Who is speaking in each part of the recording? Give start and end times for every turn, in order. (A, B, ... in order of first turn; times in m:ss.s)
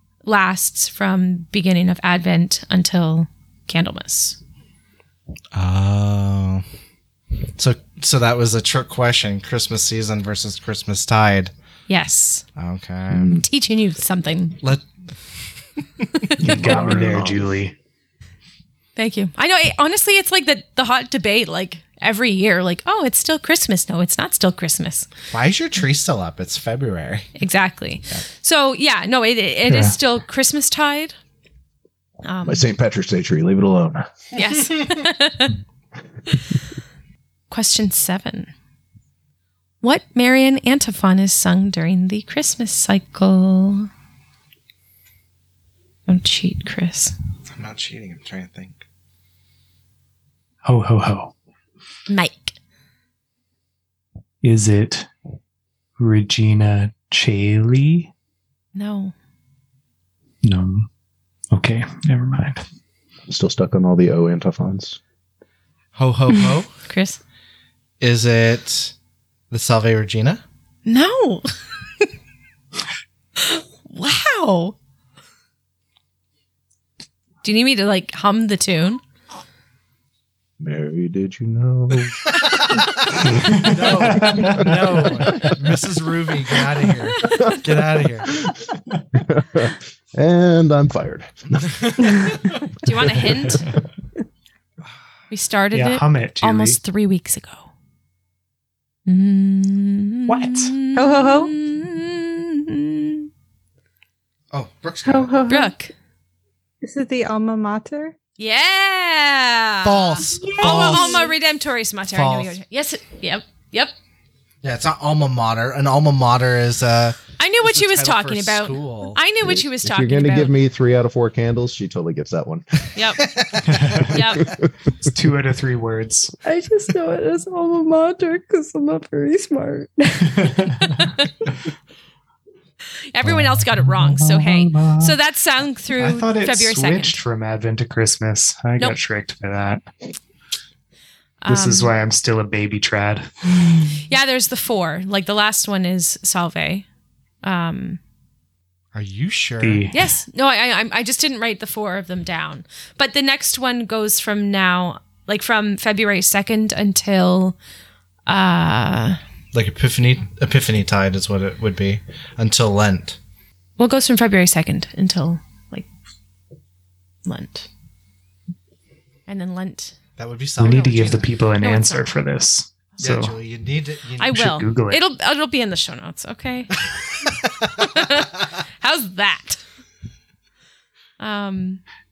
0:00.2-0:04.4 A
0:05.5-0:06.6 B
0:07.6-0:11.5 B
0:11.9-0:12.4 A
0:12.6-0:13.4 B
0:13.1-0:13.4 C
0:13.3-0:14.6 A
0:14.6-0:14.9 B
0:16.4-0:17.4 C
0:16.4-0:17.7 D
0:16.6-0:16.9 B
0:19.0-0:25.1 A
0:25.3-0:27.3 B
0:27.4-0:31.1 A
0:29.7-0:29.9 D
0:32.2-0:32.7 A
0:32.4-0:34.1 C
0:34.3-0:35.5 A
0:37.5-0:38.5 A
0:39.8-0:43.9 A
0:46.1-0:47.1 A
0:47.5-0:48.8 B
0:50.6-0:51.3 D
0:52.1-0:52.5 A
0:54.4-0:55.1 D
0:56.0-0:58.1 D
0:58.7-0:59.1 A
1:00.4-1:00.9 D
1:01.5-1:02.6 D
1:03.3-1:05.0 C
1:05.9-1:06.7 B
1:06.8-1:07.2 A
1:08.0-1:08.9 B
1:09.5-1:10.4 B
1:10.8-1:11.5 A
1:13.4-1:14.8 A
1:17.4-1:19.0 A
1:20.6-1:22.2 C
1:22.4-1:28.3 B
1:23.4-1:25.5 D
1:24.2-1:24.6 C
1:27.2-1:27.6 A
1:29.1-1:32.4 C
1:32.0-1:32.5 B
1:32.8-1:33.7 A
1:35.3-1:37.7 A
1:35.7-1:36.8 D
1:39.0-1:43.3 A
1:40.3-1:40.7 D
1:40.4-1:41.5 E
1:44.5-1:45.4 B
1:45.0-1:45.7 E
1:45.5-1:45.9 A
1:46.8-1:48.1 E
1:48.4-1:53.9 A
1:49.8-1:51.3 B
1:50.4-1:51.3 E
1:52.1-1:52.6 B
1:54.6-1:59.2 B
1:57.4-2:00.5 A
1:59.4-2:02.8 C
2:02.9-2:03.3 A
2:03.2-2:04.1 B
2:03.7-2:04.1 D
2:04.1-2:04.6 A
2:04.4-2:04.7 C
2:05.0-2:06.3 D
2:06.4-2:11.1 E
2:10.4-2:11.1 D
2:13.1-2:17.2 A
2:13.2-2:15.2 D
2:16.0-2:19.9 D
2:21.4-2:21.9 A
2:21.5-2:23.3 D
2:24.0-2:26.8 A
2:27.4-2:28.0 A
2:28.9-2:29.9 B
2:29.6-2:30.1 D
2:29.9-2:37.6 A
2:38.3-2:39.2 A
2:39.5-2:43.2 B
2:43.8-2:45.9 A
2:47.2-2:47.7 A
2:49.3-2:50.0 A
2:50.2-2:51.3 B
2:50.6-2:53.3 D
2:51.6-2:52.0 A
2:53.0-2:54.4 B
2:54.2-2:56.9 A
2:54.3-2:55.0 D
2:57.2-2:57.7 B
2:57.8-2:59.6 A
3:01.2-3:01.8 A